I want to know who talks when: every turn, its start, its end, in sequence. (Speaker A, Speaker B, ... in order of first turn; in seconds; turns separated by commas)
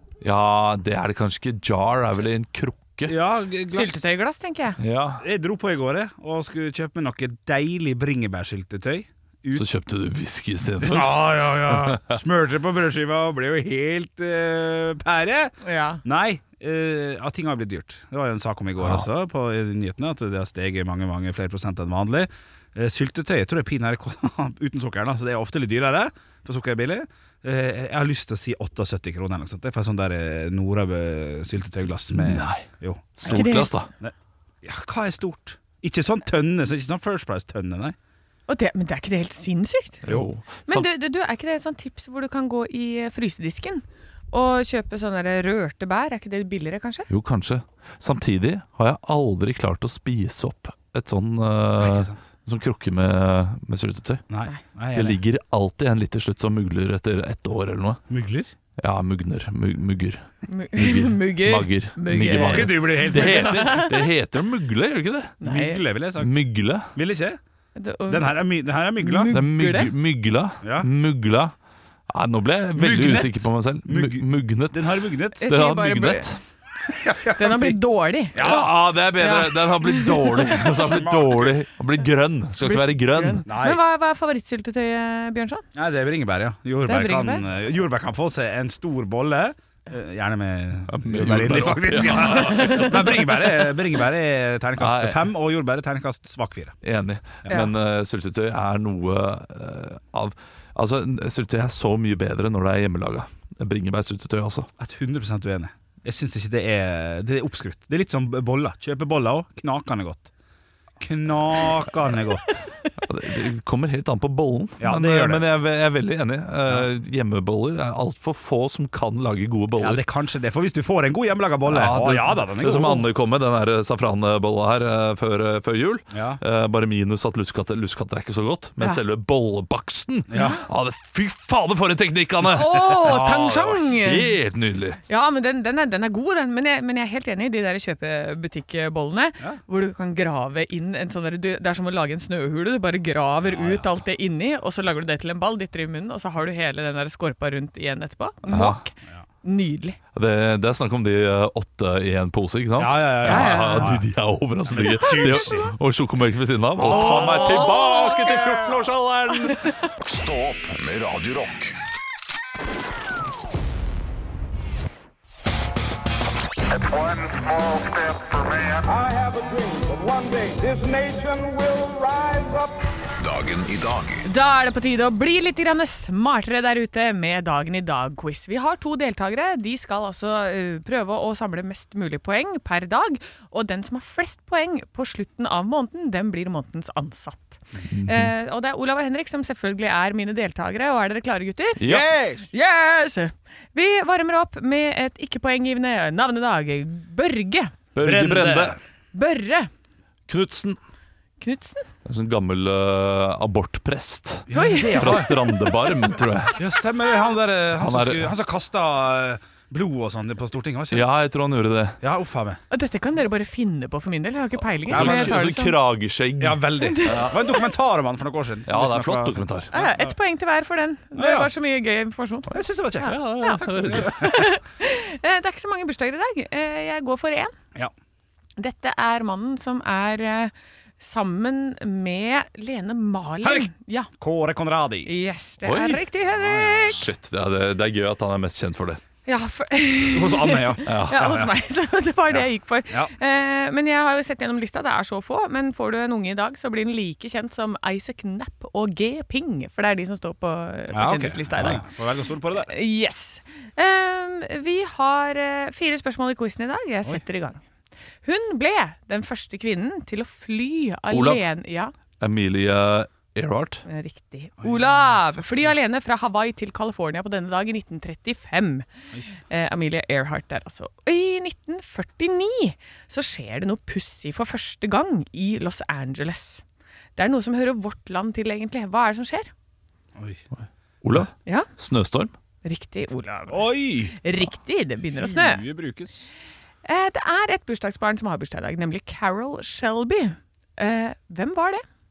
Speaker A: 0.2-3.1, Speaker B: 3.0-4.1, Speaker C: 3.7-4.8, Speaker A: 4.8-5.2, Speaker B: 5.2-9.6, Speaker A: 9.5-12.1, Speaker B: 10.8-33.4, Speaker C: 15.6-16.0, Speaker A: 32.2-32.6, Speaker A: 33.2-33.9, Speaker C: 33.2-33.7, Speaker B: 34.0-38.0, Speaker C: 38.5-40.0, Speaker A: 40.0-40.9, Speaker C: 40.7-47.1, Speaker A: 47.1-54.2, Speaker B: 51.8-52.2, Speaker B: 54.3-55.2, Speaker A: 54.9-58.0, Speaker B: 58.1-58.5, Speaker A: 58.8-65.4, Speaker C: 60.5-64.1, Speaker B: 62.2-63.9, Speaker C: 65.4-65.8, Speaker B: 65.4-67.4, Speaker A: 66.2-66.9, Speaker C: 67.7-68.4, Speaker B: 68.1-69.3, Speaker C: 69.0-69.9, Speaker A: 69.3-71.5, Speaker B: 70.6-70.9, Speaker A: 72.1-74.9, Speaker B: 72.8-75.4, Speaker C: 75.3-76.3, Speaker A: 75.5-76.4, Speaker B: 76.8-77.8, Speaker C: 77.3-80.8, Speaker B: 78.3-78.7, Speaker A: 78.4-83.4, Speaker B: 80.7-81.5, Speaker C: 82.6-85.6, Speaker B: 83.4-83.8, Speaker B: 85.7-96.8, Speaker C: 86.8-87.4, Speaker A: 90.9-93.3, Speaker C: 92.3-93.5, Speaker A: 94.8-95.2, Speaker A: 96.8-104.7, Speaker B: 104.8-110.3, Speaker B: 111.0-112.6, Speaker A: 113.0-120.0, Speaker B: 114.8-115.5, Speaker B: 119.8-123.1, Speaker A: 121.7-135.0, Speaker B: 126.1-126.4, Speaker B: 130.3-130.6, Speaker C: 132.5-134.3, Speaker B: 133.0-133.5, Speaker C: 135.1-148.9, Speaker B: 143.4-143.9, Speaker A: 148.5-148.8, Speaker C: 149.4-150.0, Speaker A: 150.1-159.6, Speaker B: 152.8-154.1, Speaker C: 153.2-154.0, Speaker B: 154.7-155.7, Speaker C: 154.8-155.7, Speaker B: 156.8-158.3, Speaker C: 156.8-158.7, Speaker C: 159.4-159.7, Speaker D: 160.0-161.8, Speaker D: 167.3-168.0, Speaker E: 168.9-172.7, Speaker D: 173.2-174.2, Speaker C: 174.2-197.8, Speaker A: 187.9-188.3, Speaker A: 191.8-192.1, Speaker B: 191.8-192.5, Speaker A: 197.9-198.8, Speaker B: 198.0-198.8, Speaker C: 199.1-199.7, Speaker A: 200.3-200.8, Speaker C: 201.4-201.9, Speaker A: 202.1-206.6, Speaker B: 204.5-205.3, Speaker C: 204.5-206.1, Speaker B: 206.6-211.1, Speaker A: 207.8-208.3, Speaker A: 210.9-212.0, Speaker B: 212.0-212.6, Speaker C: 212.7-215.8, Speaker A: 214.9-217.4, Speaker B: 214.9-215.5, Speaker B: 216.4-220.1, Speaker C: 216.8-217.7, Speaker A: 218.7-219.7, Speaker C: 219.7-227.5, Speaker B: 221.2-221.5, Speaker B: 222.5-224.5, Speaker A: 223.0-224.3, Speaker C: 228.6-234.1, Speaker B: 233.4-235.1, Speaker C: 235.0-237.0, Speaker A: 235.6-236.0, Speaker B: 236.2-237.0, Speaker A: 236.8-239.0, Speaker C: 239.2-251.8, Speaker B: 240.1-241.5, Speaker A: 240.8-241.4, Speaker B: 242.3-243.1, Speaker B: 250.9-252.7, Speaker C: 252.5-257.6, Speaker C: 258.2-261.9, Speaker A: 261.1-261.4, Speaker A: 262.2-263.8, Speaker C: 263.9-268.9, Speaker B: 264.6-265.7, Speaker C: 269.5-276.6, Speaker C: 277.1-279.5, Speaker B: 280.1-280.4, Speaker A: 281.0-282.3, Speaker C: 282.6-283.6, Speaker B: 283.5-284.2, Speaker C: 284.2-285.6, Speaker B: 285.1-286.3, Speaker C: 286.8-291.8